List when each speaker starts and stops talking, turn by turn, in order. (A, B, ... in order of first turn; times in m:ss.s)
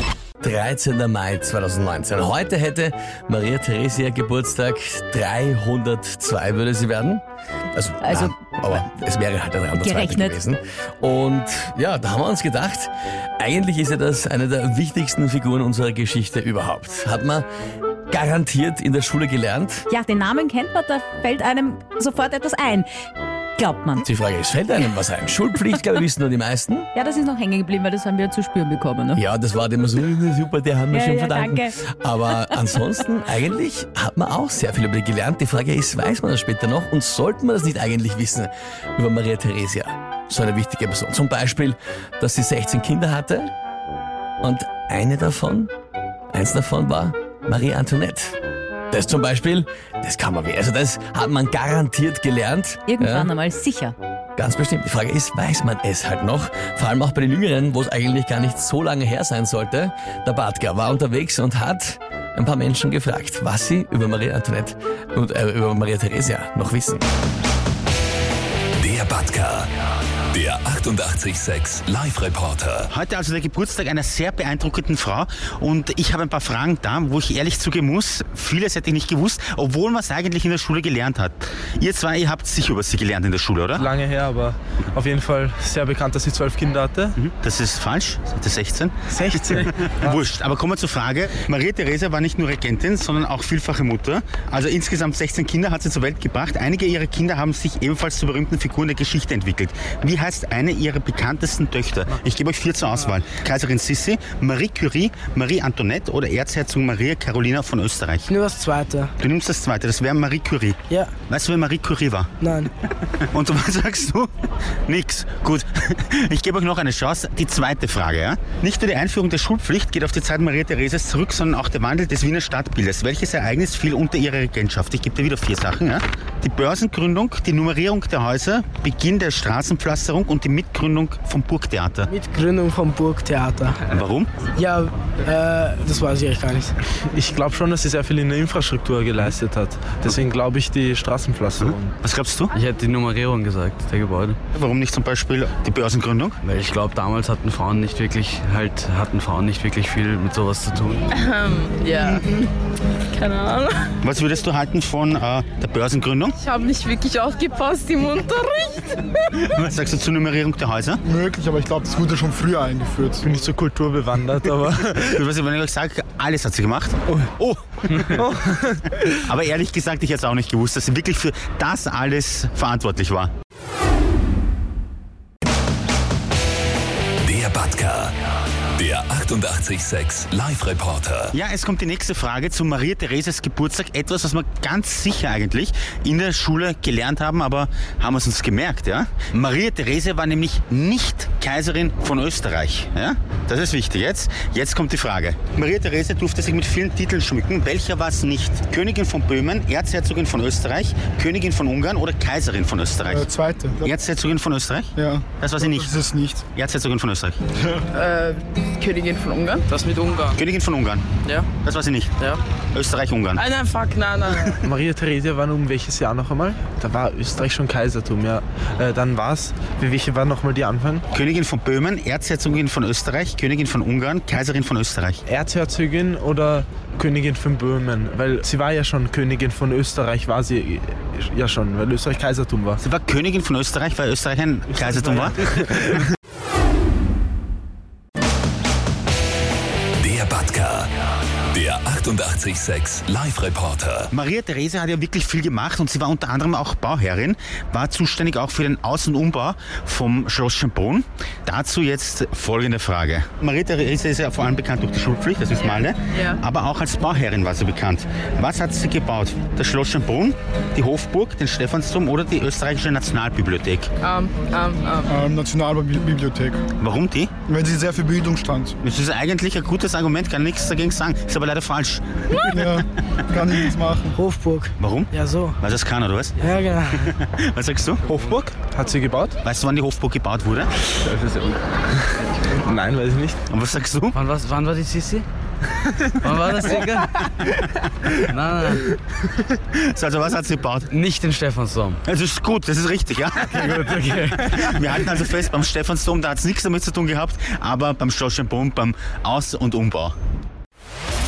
0:00.4-0:07.2 A
0:07.7-0:17.5 A
0:08.0-0:08.3 B
0:09.8-0:10.4 B
0:18.1-0:19.9 A
0:19.9-0:22.9 B
0:23.6-0:24.0 B
0:24.0-0:26.9 A
0:26.9-0:29.2 B
0:29.2-0:43.5 A
0:30.9-0:31.8 B
0:44.4-0:45.7 A
0:46.3-0:48.4 A
0:48.9-0:53.3 A
0:52.9-0:54.0 B
0:54.4-1:07.0 A
1:08.8-1:09.7 C
1:10.3-1:12.9 C
1:12.9-1:23.8 D
1:23.7-1:27.2 E
1:27.2-1:48.3 D
1:29.1-1:30.2 E
1:48.3-1:49.1 F
1:49.2-1:50.8 D
1:51.3-1:52.3 D
1:52.4-1:52.7 F
1:53.3-1:54.3 D
1:54.9-2:12.1 D
2:12.1-2:13.8 F
2:13.9-2:14.3 D
2:14.6-2:16.7 F
2:17.0-2:22.0 E
2:21.6-2:22.5 D
2:22.5-2:24.4 G
2:24.5-2:26.4 D
2:26.4-2:31.0 G
2:31.1-2:32.5 H
2:33.1-2:33.9 H
2:34.0-2:36.4 D
2:36.4-2:39.4 H
2:39.5-2:41.0 D
2:41.0-2:43.3 I
2:43.2-2:45.2 E
2:45.0-2:48.2 D
2:47.1-2:47.4 E
2:48.2-2:49.1 E
2:49.3-2:53.3 D
2:57.2-2:58.2 C
2:58.8-3:01.3 C
3:01.3-3:23.3 D
3:23.1-3:23.9 I
3:23.8-3:27.4 D
3:25.0-3:26.4 I
3:27.9-3:30.4 H
3:30.4-3:32.1 D
3:32.7-3:33.4 D
3:33.4-3:34.6 H
3:34.6-3:41.0 E
3:41.1-3:45.2 D
3:45.3-3:52.8 E
3:52.8-3:55.4 D
3:54.8-3:55.8 E
4:00.0-4:00.9 C
4:01.5-4:04.1 C
4:04.1-4:23.9 D
4:16.1-4:16.4 H
4:24.0-4:25.2 H
4:25.0-4:26.6 I
4:26.8-4:27.3 D
4:27.5-4:28.8 I
4:28.8-4:32.6 D
4:32.5-4:34.2 I
4:34.2-4:35.6 F
4:34.8-4:36.5 D
4:36.4-4:37.2 F
4:37.0-4:38.0 D
4:38.1-4:39.4 E
4:39.4-4:40.7 D
4:41.0-4:43.4 E
4:43.5-4:44.2 D
4:44.1-4:45.3 G
4:46.2-4:47.4 G
4:48.3-4:48.9 G
4:49.8-4:50.9 D
4:50.9-4:52.0 G
4:52.1-5:00.2 D
4:53.4-4:54.5 G